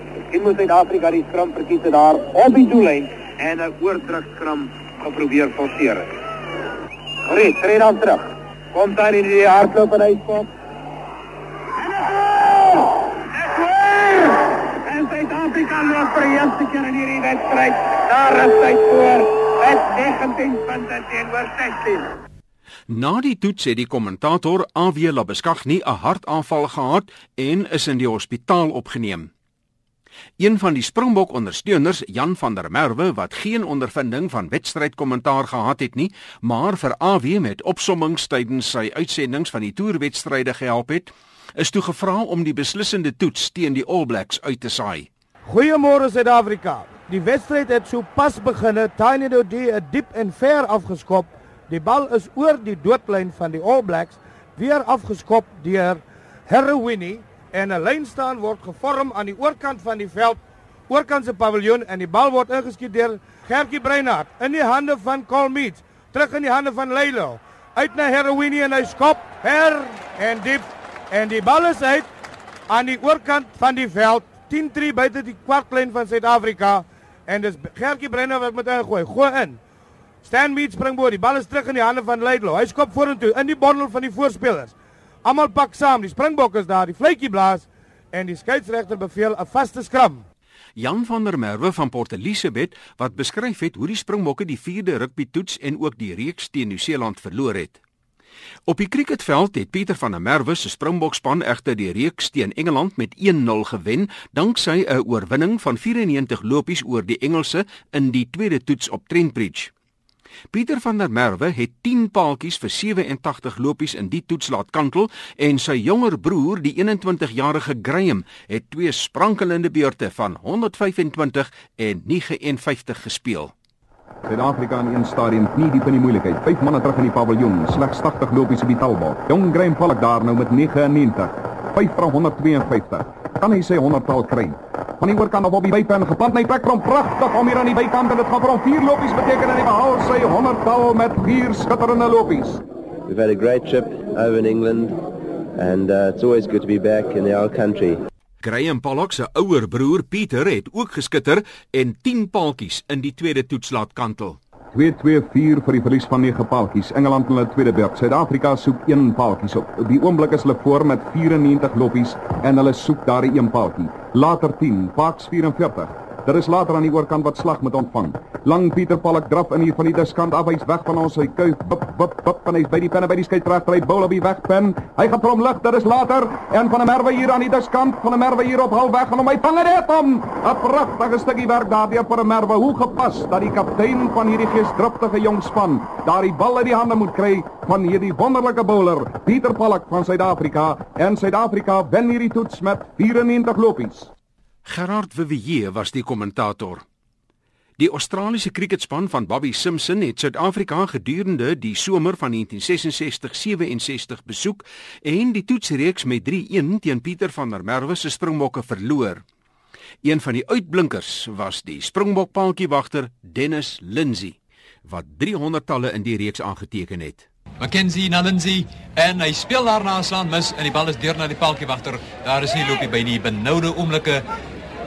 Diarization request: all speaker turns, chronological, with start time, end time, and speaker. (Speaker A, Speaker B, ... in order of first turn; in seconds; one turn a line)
Speaker A: 0.3-6.1
Speaker A: 7.3-10.5
Speaker A: 11.8-22.1
Speaker B: 22.9-29.3
Speaker B: 30.4-45.1
Speaker C: 45.5-72.1
Speaker C: 72.7-79.6
Speaker C: 80.2-90.2
Speaker B: 90.8-97.8
Speaker B: 98.7-109.7
Speaker B: 110.5-123.5
Speaker D: 124.3-142.6
Speaker E: 143.1-145.0
Speaker E: 145.6-148.1
Speaker B: 148.4-154.4
Speaker D: 154.7-194.1
Speaker B: 194.7-196.8
Speaker B: 197.8-209.2
Speaker B: 210.0-217.3
Speaker F: 217.6-224.2